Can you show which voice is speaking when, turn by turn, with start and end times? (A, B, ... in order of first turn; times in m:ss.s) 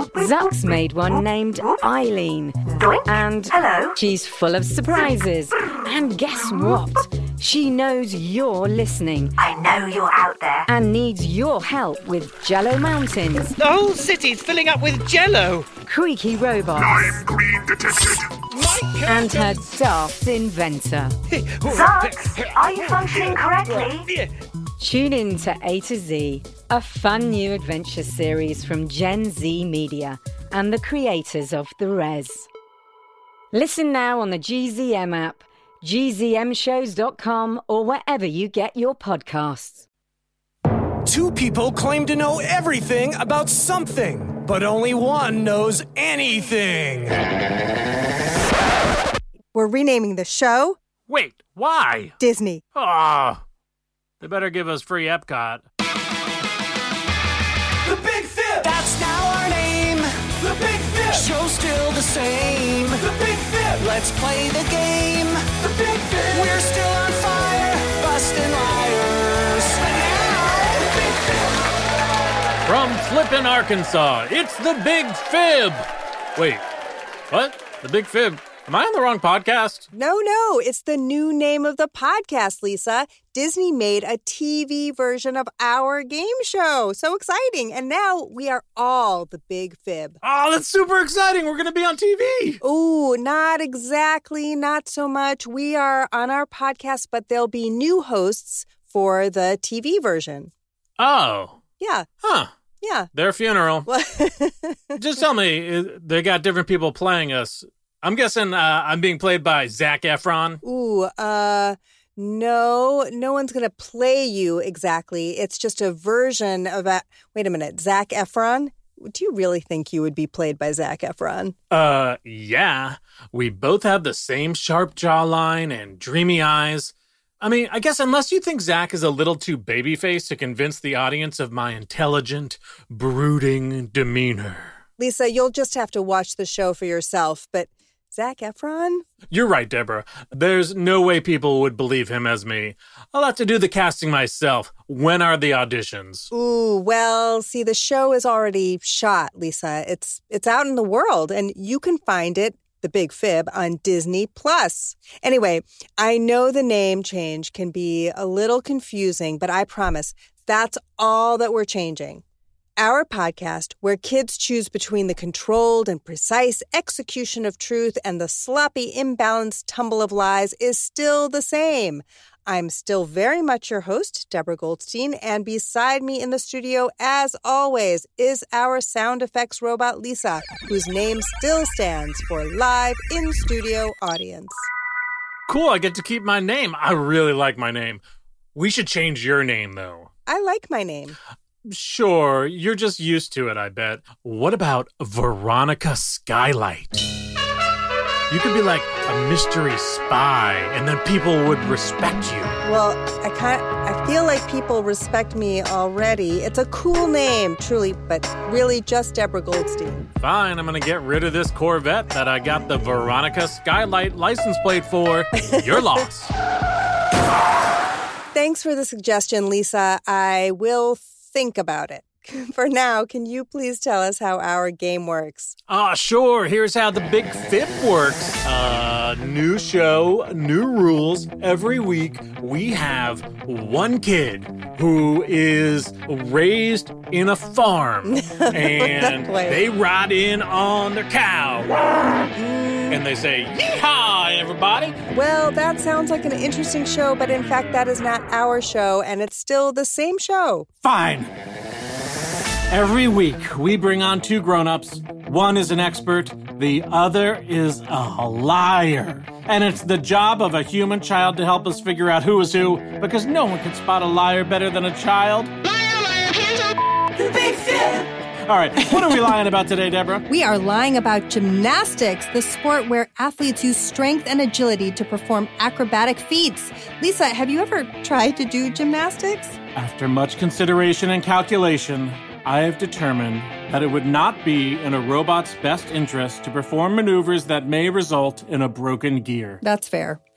0:00.1-0:09.4 A
0:02.8-0:04.0 B
0:09.4-0:10.7 B
0:10.7-0:13.6 A
0:13.6-0:15.7 C
0:15.8-0:17.2 A
0:17.5-0:17.9 C
0:18.5-0:19.6 D
0:19.0-0:21.2 A
0:21.5-0:24.2 D
0:21.7-0:24.0 B
0:24.8-0:32.5 A
0:33.5-0:39.8 A
0:41.0-0:47.2 D
0:49.5-0:50.8 E
0:51.1-0:52.2 F
0:52.2-0:52.6 E
0:52.7-0:53.4 F
0:54.2-0:55.6 F
0:57.8-1:11.2 D
1:12.7-1:16.6 F
1:17.3-1:19.9 F
1:19.9-1:30.2 E
1:30.2-1:32.6 F
1:32.6-1:40.5 E
1:41.0-1:41.6 F
1:41.8-1:42.1 E
1:42.2-1:42.5 F
1:42.8-1:43.1 E
1:43.1-1:43.9 F
1:43.9-1:45.0 E
1:45.0-1:50.6 F
1:50.6-2:01.6 E
2:01.7-2:14.8 F
2:15.0-2:19.0 E
2:19.3-2:26.3 F
2:26.3-2:42.2 E
2:42.8-3:04.6 E
3:05.5-3:08.0 F
3:08.5-3:10.1 F
3:10.3-3:11.2 E
3:11.6-3:17.0 F
3:18.3-3:22.5 F
3:22.6-3:30.1 E
3:30.2-3:36.3 F
3:38.3-3:45.6 E
3:45.7-4:02.3 F
3:58.1-3:59.6 E
4:02.3-4:03.0 E
4:02.9-4:05.0 F
4:05.1-4:10.7 E
4:10.8-4:11.3 F
4:12.7-4:25.5 F
4:27.4-4:30.2 F
4:28.9-4:29.2 E
4:30.3-4:39.6 E
4:39.8-4:49.6 F
4:49.6-4:50.2 E